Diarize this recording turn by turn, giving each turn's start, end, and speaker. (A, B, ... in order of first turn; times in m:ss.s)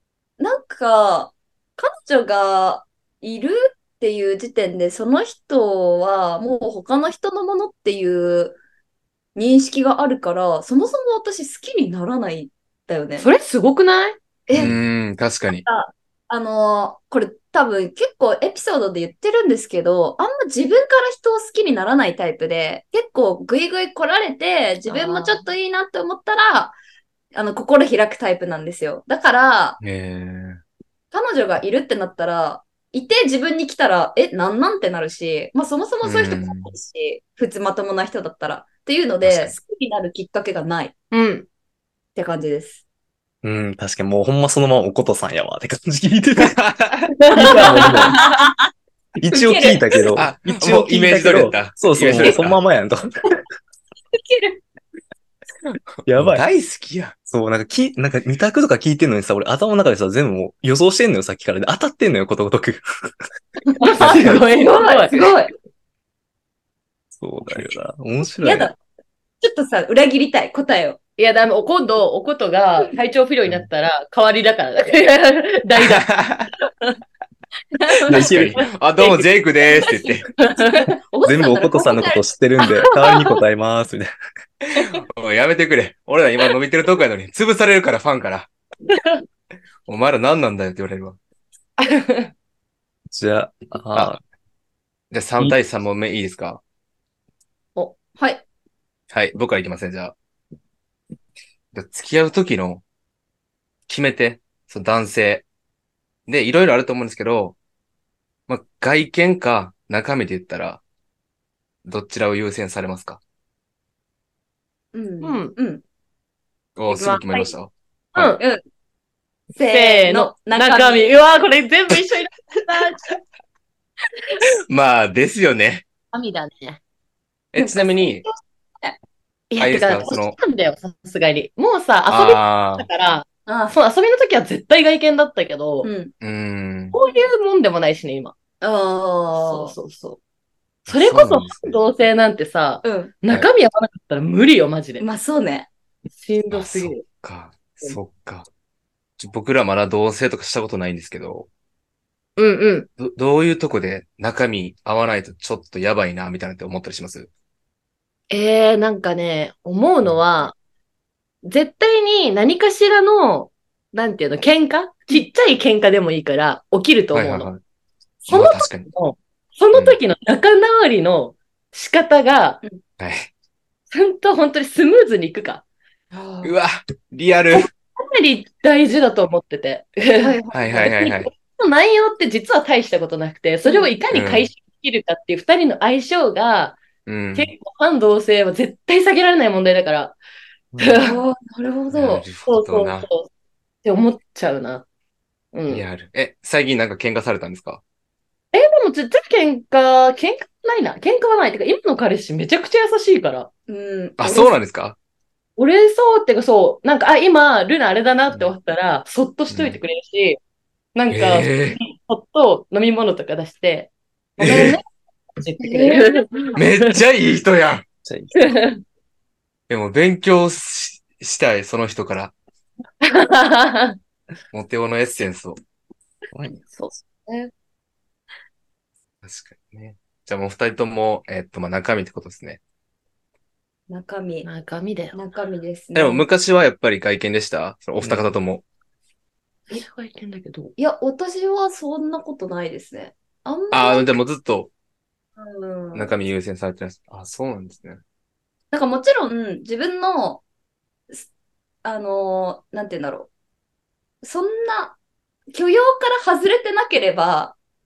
0:00.4-0:08.6 A
0:09.3-0:13.3 A
0:13.2-0:14.2 B
0:14.5-0:14.8 A
0:14.5-0:15.6 C
0:15.6-0:26.8 A
0:24.9-0:25.4 B
0:27.3-0:29.8 A
0:29.8-0:30.6 C
0:31.1-0:40.9 A
0:36.0-0:36.7 C
0:39.2-0:39.6 C
0:41.1-0:41.4 B
0:42.2-0:42.8 A
0:43.4-0:46.6 D
0:46.4-0:47.1 C
0:47.3-0:48.2 B
0:47.3-0:48.2 D
0:47.4-0:48.5 A
0:49.2-0:53.0 D
0:49.3-0:50.0 A
0:50.1-0:52.6 C
0:54.1-0:54.6 A
0:56.0-0:57.1 C
0:56.0-0:56.4 D
0:57.2-1:02.8 D
1:03.8-1:05.3 B
1:04.0-1:04.4 D
1:04.0-1:05.5 A
1:07.1-1:08.7 D
1:08.4-1:08.8 A
1:09.4-1:11.0 A
1:11.2-1:16.0 B
1:15.8-1:16.5 C
1:17.7-1:18.3 A
1:18.1-1:18.6 D
1:18.2-1:20.3 C
1:19.7-1:23.2 A
1:20.4-1:20.9 B
1:21.2-1:24.1 D
1:23.0-1:23.3 B
1:24.7-1:28.5 C
1:28.9-1:29.2 B
1:29.8-1:31.2 C
1:31.8-1:32.3 B
1:33.1-1:34.2 D
1:35.1-1:36.6 C
1:38.2-1:38.4 A
1:39.1-1:40.1 C
1:41.7-1:42.8 C
1:43.9-1:45.4 C
1:46.3-1:47.6 C
1:48.5-1:50.8 C
1:51.8-1:53.2 C
1:54.9-1:55.8 A
1:55.2-1:55.5 B
1:56.8-1:58.4 C
1:56.9-1:57.5 B
1:58.1-1:58.4 B
1:59.5-2:01.1 A
1:59.7-2:03.0 B
2:04.7-2:05.8 C
2:06.1-2:06.8 B
2:07.5-2:08.2 C
2:07.6-2:08.9 A
2:09.5-2:15.9 B
2:09.6-2:10.4 C
2:12.1-2:12.9 C
2:13.5-2:13.8 A
2:15.8-2:16.1 A
2:16.2-2:17.0 C
2:16.9-2:18.3 B
2:18.6-2:19.7 A
2:19.3-2:20.2 B
2:20.9-2:25.0 B
2:20.9-2:21.8 C
2:22.8-2:23.1 A
2:25.0-2:25.7 A
2:26.2-2:27.0 B
2:26.5-2:28.5 C
2:29.2-2:31.5 C
2:32.4-2:32.9 B
2:33.0-2:37.3 C
2:38.3-2:40.6 B
2:41.4-2:47.5 B
2:47.1-2:47.6 C
2:48.2-2:52.6 B
2:48.3-2:48.9 C
2:49.7-2:50.0 C
2:53.0-2:53.3 C
2:53.9-2:55.6 B
2:56.1-2:56.5 A
2:56.4-2:57.7 C
2:57.5-3:06.8 B
3:00.2-3:00.9 A
3:00.5-3:01.3 C
3:03.6-3:03.9 A
3:04.1-3:04.5 C
3:07.0-3:07.5 C
3:07.3-3:10.2 B
3:10.8-3:11.2 B
3:11.0-3:12.2 A
3:11.9-3:13.1 C
3:12.4-3:13.3 B
3:13.8-3:14.8 B
3:15.5-3:15.8 B
3:15.7-3:17.8 C
3:18.5-3:23.5 B
3:23.7-3:24.5 A
3:24.2-3:25.0 C
3:25.6-3:30.4 B
3:29.5-3:29.8 C
3:30.9-3:34.8 B
3:31.1-3:31.8 C
3:34.4-3:34.8 C
3:35.4-3:36.7 B
3:35.6-3:36.6 A
3:36.6-3:37.8 C
3:38.0-3:38.6 D
3:38.3-3:38.8 B
3:39.7-3:42.3 C
3:43.0-3:44.0 B
3:44.5-3:45.6 C
3:46.3-3:46.8 D
3:46.8-3:47.5 B
3:49.2-3:52.6 C
3:53.9-3:54.5 A
3:54.4-3:55.2 B
3:55.1-3:56.2 A
3:55.9-3:58.6 C
3:58.0-3:58.3 D
3:59.7-4:00.7 B
4:00.8-4:04.2 A
4:03.7-4:04.7 C
4:05.4-4:06.1 A
4:05.9-4:08.0 C
4:08.7-4:10.4 A
4:11.8-4:13.3 A
4:14.2-4:15.0 A
4:15.5-4:17.6 A